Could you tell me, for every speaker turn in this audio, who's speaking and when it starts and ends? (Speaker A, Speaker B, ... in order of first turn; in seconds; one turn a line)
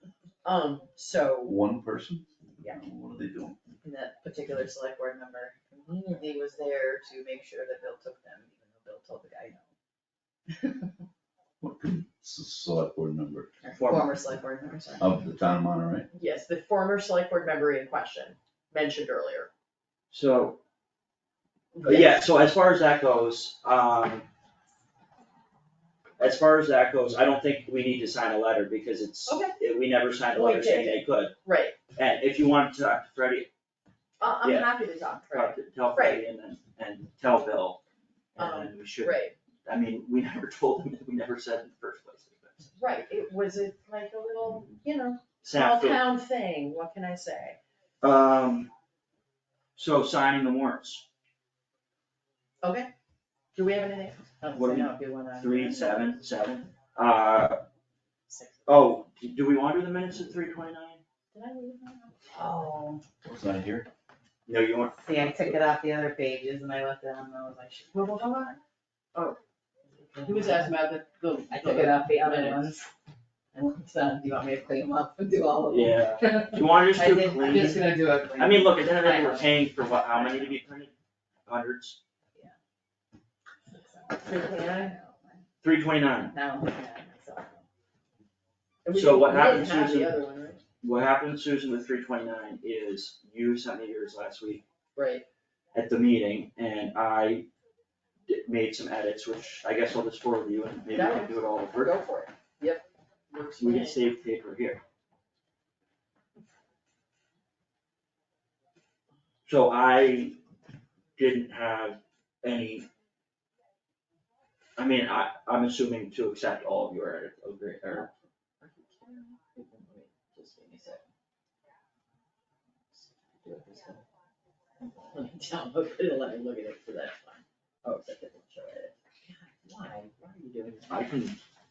Speaker A: 0.4-1.6
Speaker B: 1.4-3.6
Speaker C: 3.8-9.6
Speaker A: 5.8-6.2
Speaker B: 11.6-13.5
Speaker C: 13.6-15.1
Speaker D: 13.8-14.1
Speaker B: 15.0-16.1
Speaker A: 16.1-19.5
Speaker D: 20.1-20.6
Speaker A: 21.7-22.2
Speaker D: 21.8-24.3
Speaker D: 26.2-31.3
Speaker A: 29.3-29.6
Speaker A: 30.3-31.8
Speaker D: 31.9-33.5
Speaker A: 34.2-36.2
Speaker D: 34.4-34.7
Speaker D: 35.3-37.8
Speaker D: 38.4-42.7
Speaker A: 38.4-39.3
Speaker A: 42.8-47.6
Speaker D: 45.4-46.0
Speaker D: 48.0-48.7
Speaker D: 49.8-51.0
Speaker A: 52.6-52.9
Speaker A: 53.5-54.4
Speaker C: 54.4-56.1
Speaker D: 54.5-57.6
Speaker C: 58.3-58.6
Speaker D: 58.6-61.0
Speaker A: 61.3-62.1
Speaker C: 62.3-63.0
Speaker B: 63.2-63.9
Speaker D: 64.5-65.0
Speaker C: 65.0-68.6
Speaker A: 68.1-68.4
Speaker C: 69.9-70.8
Speaker A: 70.2-72.7
Speaker C: 71.5-72.9
Speaker C: 73.5-79.5
Speaker D: 75.7-80.9
Speaker C: 80.1-80.5
Speaker D: 81.5-82.0
Speaker C: 83.7-85.4
Speaker A: 84.2-84.9
Speaker D: 85.6-86.3
Speaker C: 86.3-87.6
Speaker A: 88.8-90.6
Speaker D: 88.9-90.2
Speaker D: 90.8-94.6
Speaker A: 95.0-95.2
Speaker D: 95.7-97.5
Speaker D: 98.3-101.9
Speaker A: 100.9-104.0
Speaker D: 103.6-104.8
Speaker D: 109.5-110.4
Speaker D: 111.2-112.9
Speaker D: 114.8-118.1
Speaker A: 118.6-121.0
Speaker A: 122.9-123.8
Speaker D: 123.4-124.0
Speaker A: 125.0-131.0
Speaker D: 130.9-131.4